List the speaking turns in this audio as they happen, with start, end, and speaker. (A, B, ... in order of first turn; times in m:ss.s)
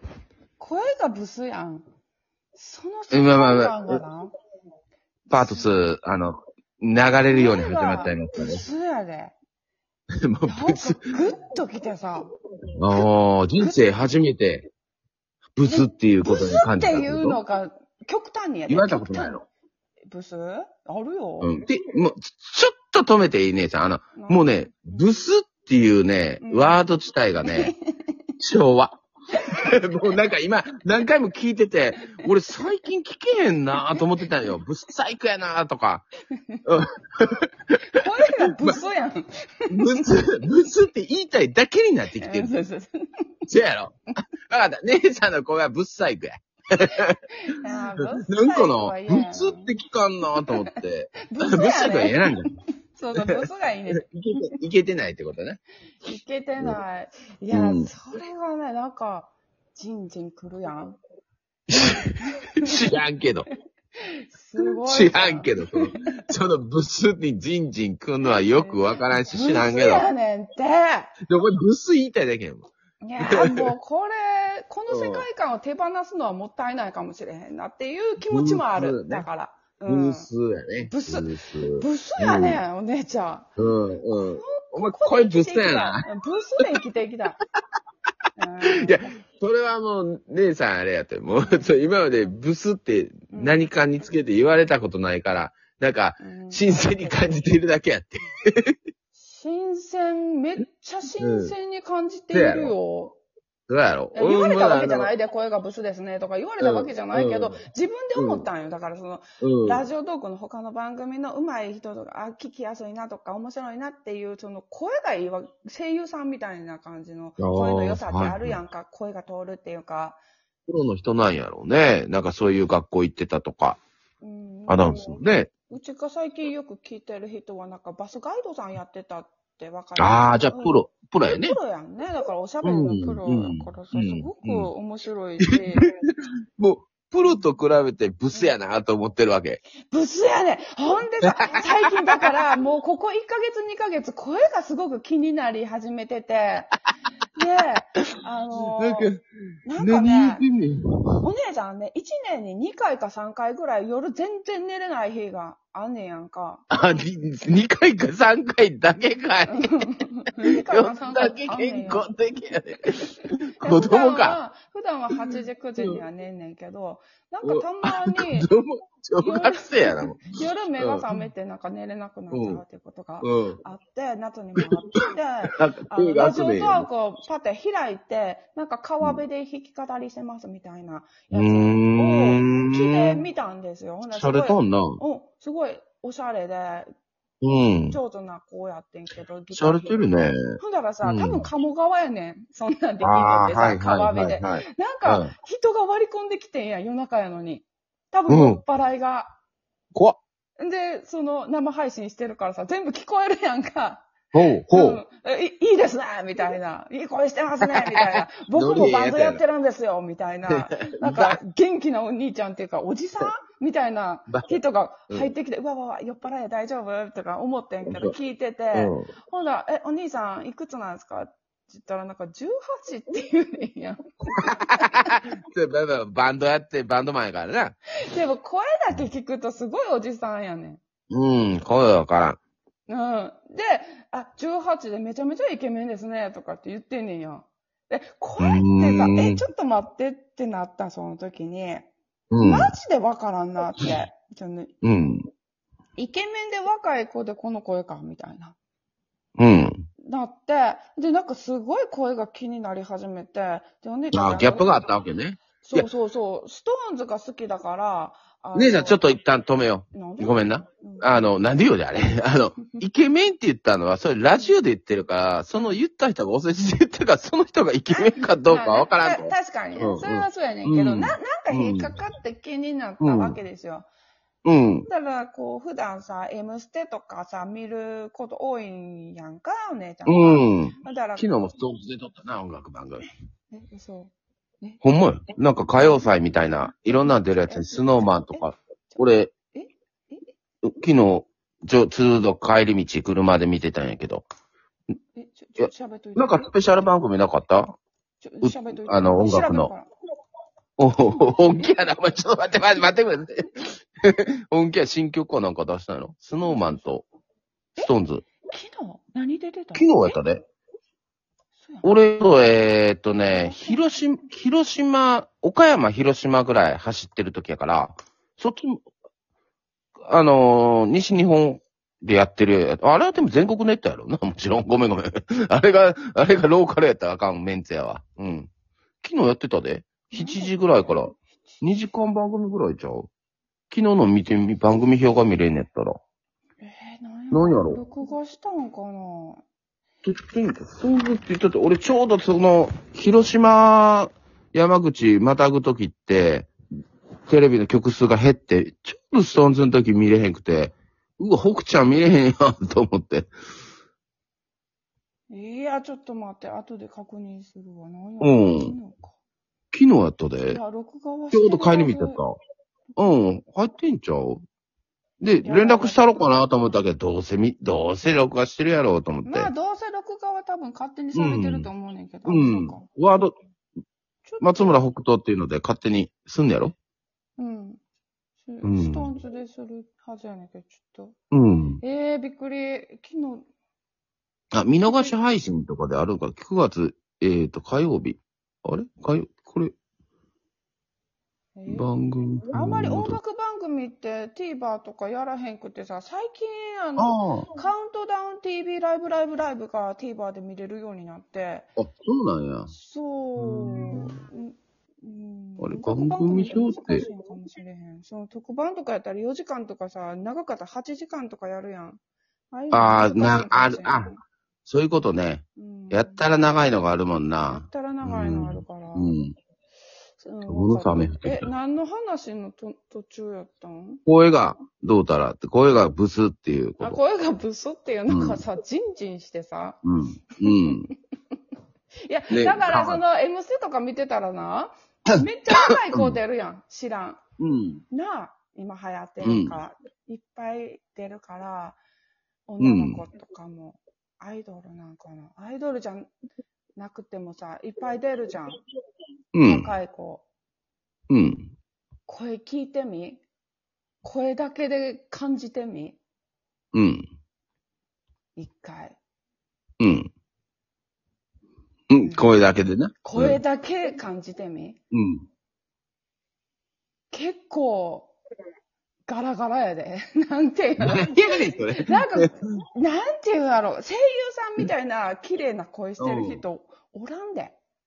0:00.6-0:01.8 A
0:02.5-0:04.3 A
0:03.1-0:04.0 B
0:05.3-0:08.6 B
0:05.4-0:05.8 A
0:07.3-0:09.3 A
0:10.2-0:11.1 B
0:10.4-0:12.3 A
0:12.8-0:14.7 B
0:13.6-0:14.0 A
0:15.6-0:17.4 B
0:15.6-0:19.4 A
0:18.7-0:19.4 B
0:20.1-0:21.5 A
0:21.4-0:27.7 B
0:24.1-0:25.2 A
0:26.4-0:26.8 A
0:27.4-0:28.3 A
0:28.4-0:29.0 B
0:29.6-0:36.0 B
0:36.6-0:37.7 B
0:37.9-0:39.7 A
0:39.7-0:42.5 B
0:42.2-0:43.3 A
0:43.4-0:47.2 B
0:47.4-0:49.7 A
0:48.0-0:52.5 B
0:50.4-0:50.7 A
0:51.3-0:52.2 A
0:52.9-0:54.0 A
0:54.0-0:55.6 B
0:56.0-1:01.0 A
0:57.5-0:57.9 B
1:01.7-1:03.5 B
1:01.7-1:02.8 A
1:04.0-1:06.2 A
1:04.8-1:10.1 B
1:08.2-1:11.1 A
1:11.2-1:13.7 B
1:13.0-1:20.3 A
1:14.9-1:15.2 B
1:18.3-1:19.3 B
1:19.9-1:22.6 B
1:20.8-1:23.5 A
1:23.6-1:26.1 B
1:24.1-1:27.4 A
1:28.4-1:29.2 A
1:28.7-1:38.7 B
1:31.4-1:31.7 A
1:33.3-1:33.7 A
1:36.2-1:37.2 A
1:39.1-1:43.2 A
1:41.2-1:41.5 B
1:42.3-1:42.7 B
1:43.7-1:45.1 B
1:44.1-2:00.2 A
1:46.6-1:47.6 B
1:48.1-1:48.5 B
1:49.4-1:49.9 B
1:57.4-1:58.6 B
2:00.7-2:03.8 B
2:04.2-2:15.9 A
2:04.7-2:05.5 B
2:10.0-2:11.6 B
2:12.6-2:14.7 B
2:15.4-2:15.9 B
2:16.6-2:19.6 B
2:18.3-2:18.6 A
2:19.9-2:26.8 A
2:27.3-2:29.1 A
2:28.8-2:29.2 B
2:29.6-2:30.4 A
2:29.8-2:31.2 B
2:31.2-2:36.8 A
2:36.7-2:39.9 B
2:39.5-2:42.1 A
2:40.4-2:44.4 B
2:43.6-2:48.5 A
2:47.4-2:51.1 B
2:49.2-3:06.9 A
2:52.3-2:52.6 B
2:53.2-2:53.6 B
2:55.5-2:56.9 B
3:01.3-3:03.2 B
3:04.1-3:05.0 B
3:07.4-3:08.0 B
3:07.9-3:10.0 A
3:09.5-3:11.5 B
3:10.6-3:19.4 A
3:13.0-3:15.3 B
3:18.3-3:18.6 B
3:19.9-3:20.2 B
3:20.6-3:24.1 A
3:24.3-3:25.0 B
3:24.7-3:45.2 A
3:27.6-3:29.4 B
3:30.5-3:31.4 B
3:34.3-3:34.6 B
3:37.9-3:38.1 B
3:38.7-3:39.1 B
3:44.4-3:47.7 B
3:48.0-3:50.8 A
3:51.1-3:52.4 B
3:52.9-4:04.7 A
3:58.4-3:59.4 B
4:02.3-4:02.7 B
4:04.8-4:05.2 B
4:06.0-4:08.6 A
4:09.4-4:09.8 B
4:10.0-4:14.8 A
4:14.1-4:15.9 B
4:15.6-4:19.1 A
4:18.5-4:32.0 B
4:19.9-4:21.3 A
4:27.9-4:33.9 A
4:33.0-4:33.4 B
4:34.4-4:34.9 B
4:34.9-4:41.4 A
4:40.0-4:43.1 B
4:43.5-4:44.1 A
4:44.8-4:49.3 B
4:45.7-4:46.1 A
4:47.5-4:50.3 A
4:50.6-4:54.2 B
4:55.1-4:56.5 A
4:55.6-4:57.8 B
4:58.2-4:59.9 A
4:58.4-4:59.7 B
5:00.8-5:07.0 B
5:01.0-5:01.3 A
5:06.4-5:06.8 A
5:07.8-5:08.2 B
5:08.4-5:10.2 A
5:09.7-5:10.4 B
5:11.6-5:11.9 A
5:11.8-5:18.8 B
5:13.3-5:13.8 A
5:20.0-5:28.5 B
5:29.0-5:33.1 B
5:30.1-5:31.6 A
5:33.7-5:36.0 B
5:36.6-5:39.4 A
5:37.3-5:37.8 B
5:40.0-5:46.5 B
5:47.3-5:53.3 B
5:55.3-5:59.1 A
5:58.2-5:58.8 B
5:59.7-6:00.6 B
6:00.5-6:02.2 A
6:01.3-6:02.4 B
6:03.0-6:04.4 B
6:05.2-6:09.5 B
6:05.4-6:06.3 A
6:09.2-6:12.8 A
6:11.1-6:11.7 B
6:12.2-6:13.3 B
6:14.2-6:14.8 A
6:14.4-6:16.7 B
6:17.4-6:17.8 A
6:18.4-6:21.2 A
6:18.6-6:19.1 B
6:21.3-6:21.8 B
6:21.8-6:23.4 A
6:24.5-6:29.7 B
6:24.8-6:25.1 A
6:31.6-6:31.9 A
6:31.7-6:33.2 B
6:32.5-6:41.7 A
6:37.0-6:37.5 B
6:41.8-6:42.7 B
6:42.7-6:52.0 A
6:43.4-6:44.0 B
6:45.6-6:47.0 B
6:52.5-6:54.2 A
6:52.7-6:54.1 B
6:54.6-6:59.3 B
6:55.6-6:56.2 A
6:57.5-6:59.2 A
7:00.2-7:04.0 A
7:00.4-7:01.5 B
7:04.0-7:07.0 B
7:06.8-7:09.8 A
7:08.1-7:08.4 B
7:09.8-7:10.9 B
7:12.0-7:17.2 A
7:12.3-7:13.0 B
7:15.1-7:16.2 B
7:17.4-7:17.8 B
7:17.9-7:21.8 A
7:19.2-7:19.5 B
7:22.5-7:26.1 A
7:22.6-7:23.0 B
7:26.8-7:28.6 A
7:29.3-7:29.7 B
7:29.4-7:30.2 A
7:31.1-7:31.5 B
7:32.1-7:33.2 A
7:34.0-7:36.0 A
7:36.7-7:37.0 B
7:38.4-7:39.0 A
7:39.8-7:40.1 B
7:41.9-7:43.4 B
7:42.0-7:42.3 A
7:43.0-7:44.8 A
7:44.9-7:45.2 B
7:47.1-7:48.1 A
7:49.1-7:57.6 A
7:50.8-7:52.3 B
7:56.0-7:56.4 B